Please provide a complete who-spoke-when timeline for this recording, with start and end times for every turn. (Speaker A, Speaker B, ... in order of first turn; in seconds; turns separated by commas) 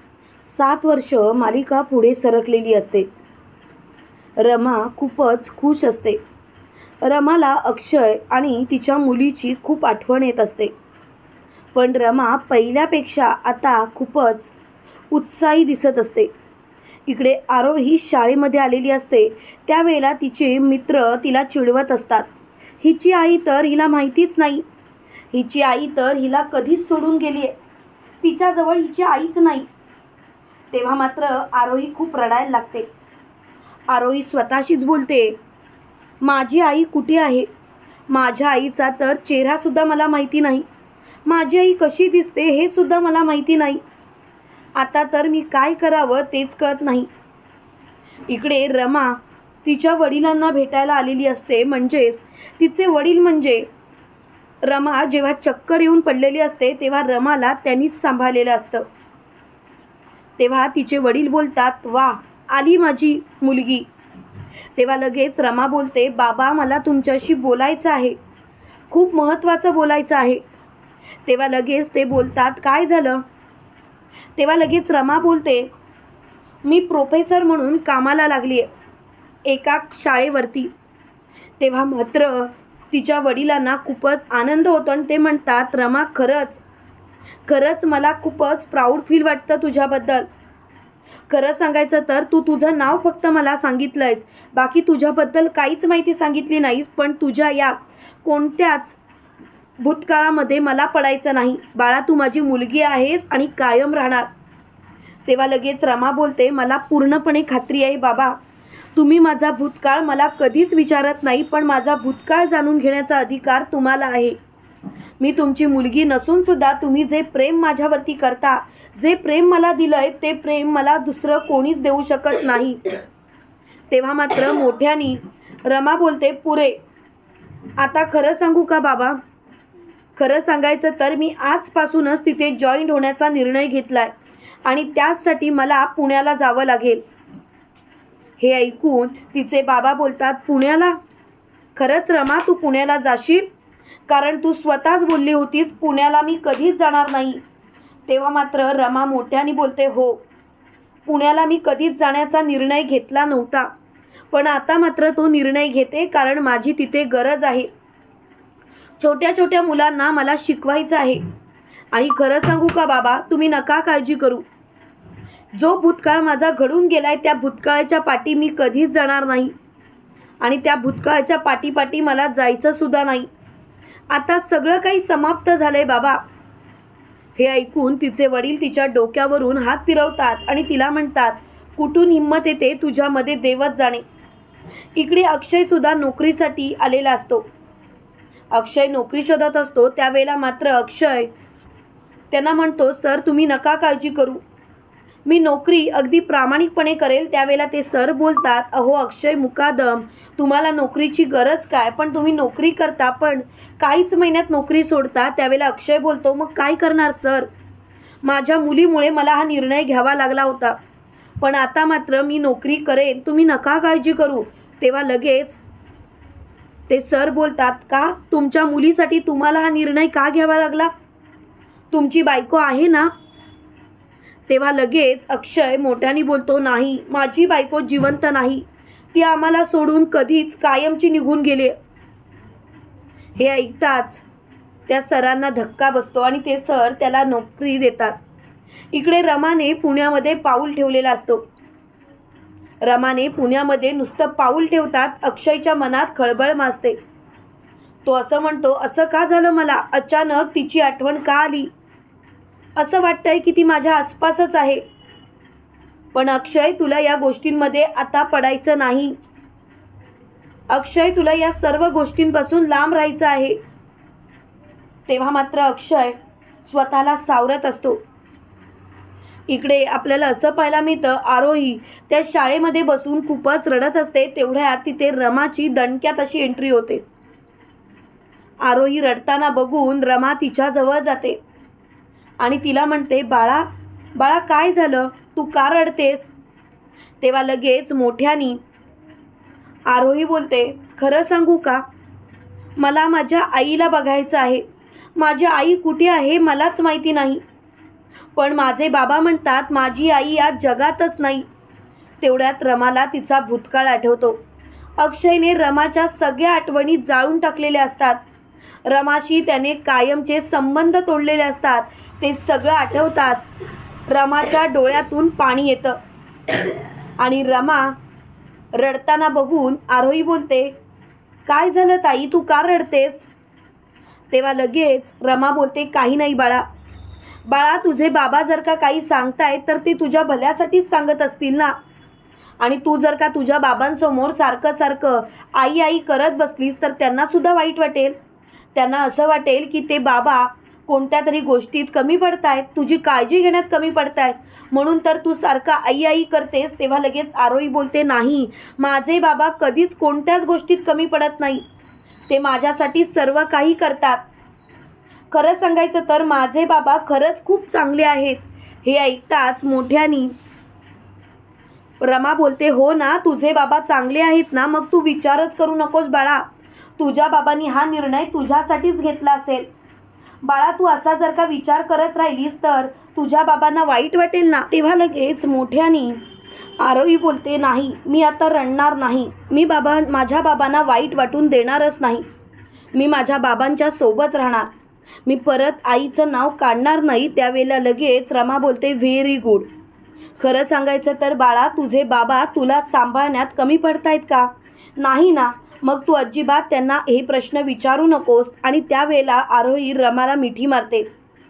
Speaker A: 0.4-3.1, Speaker A: 4.4-6.2, Speaker A: 7.0-10.7, Speaker A: 11.7-14.5, Speaker A: 15.1-16.3, Speaker A: 17.1-22.3, Speaker A: 22.8-24.6, Speaker A: 25.3-27.6, Speaker A: 28.2-29.7, Speaker A: 30.7-32.9, Speaker A: 33.9-35.4, Speaker A: 36.2-37.5, Speaker A: 38.1-40.6, Speaker A: 41.2-43.8, Speaker A: 44.8-47.1, Speaker A: 48.3-53.7, Speaker A: 54.6-58.9, Speaker A: 60.4-63.9, Speaker A: 64.8-68.2, Speaker A: 68.9-70.4, Speaker A: 71.2-73.2, Speaker A: 74.3-75.7, Speaker A: 76.6-78.7, Speaker A: 79.5-80.7, Speaker A: 81.6-86.6, Speaker A: 87.5-90.3, Speaker A: 91.3-99.0, Speaker A: 99.8-104.3, Speaker A: 105.3-108.4, Speaker A: 108.9-114.4, Speaker A: 115.2-123.0, Speaker A: 123.9-126.8, Speaker A: 127.8-129.2, Speaker A: 130.2-134.1, Speaker A: 134.6-137.0, Speaker A: 138.4-141.0, Speaker A: 141.8-143.5, Speaker A: 144.1-147.4, Speaker A: 148.1-150.2, Speaker A: 151.1-153.7, Speaker A: 154.3-157.7, Speaker A: 159.0-161.2, Speaker A: 161.9-164.4, Speaker A: 165.5-169.5, Speaker A: 170.4-173.3, Speaker A: 174.1-176.2, Speaker A: 177.3-184.0, Speaker A: 184.9-187.5, Speaker A: 188.5-191.3, Speaker A: 192.3-194.4, Speaker A: 195.2-207.5, Speaker A: 208.2-210.8, Speaker A: 211.4-215.6, Speaker A: 216.9-220.9, Speaker A: 221.9-223.1, Speaker A: 224.5-231.7, Speaker A: 233.4-234.2, Speaker A: 234.9-238.2, Speaker A: 238.9-241.4, Speaker A: 242.8-247.0, Speaker A: 248.0-251.7, Speaker A: 252.8-254.8, Speaker A: 256.1-259.1, Speaker A: 260.7-263.6, Speaker A: 265.1-268.0, Speaker A: 269.5-277.0, Speaker A: 278.6-281.4, Speaker A: 282.4-286.3, Speaker A: 287.2-288.6, Speaker A: 289.9-291.8, Speaker A: 292.8-294.6, Speaker A: 295.1-297.4, Speaker A: 298.4-301.4, Speaker A: 302.2-304.4, Speaker A: 305.0-308.2, Speaker A: 308.9-313.5, Speaker A: 314.1-316.0, Speaker A: 317.2-317.9, Speaker A: 318.7-320.7, Speaker A: 321.4-323.2, Speaker A: 324.3-326.6, Speaker A: 327.4-331.7, Speaker A: 332.6-338.1, Speaker A: 338.7-351.6, Speaker A: 352.3-354.2, Speaker A: 355.3-360.3, Speaker A: 362.0-369.7, Speaker A: 370.4-376.2, Speaker A: 376.8-382.2, Speaker A: 382.9-384.7, Speaker A: 385.2-389.7, Speaker A: 390.4-401.1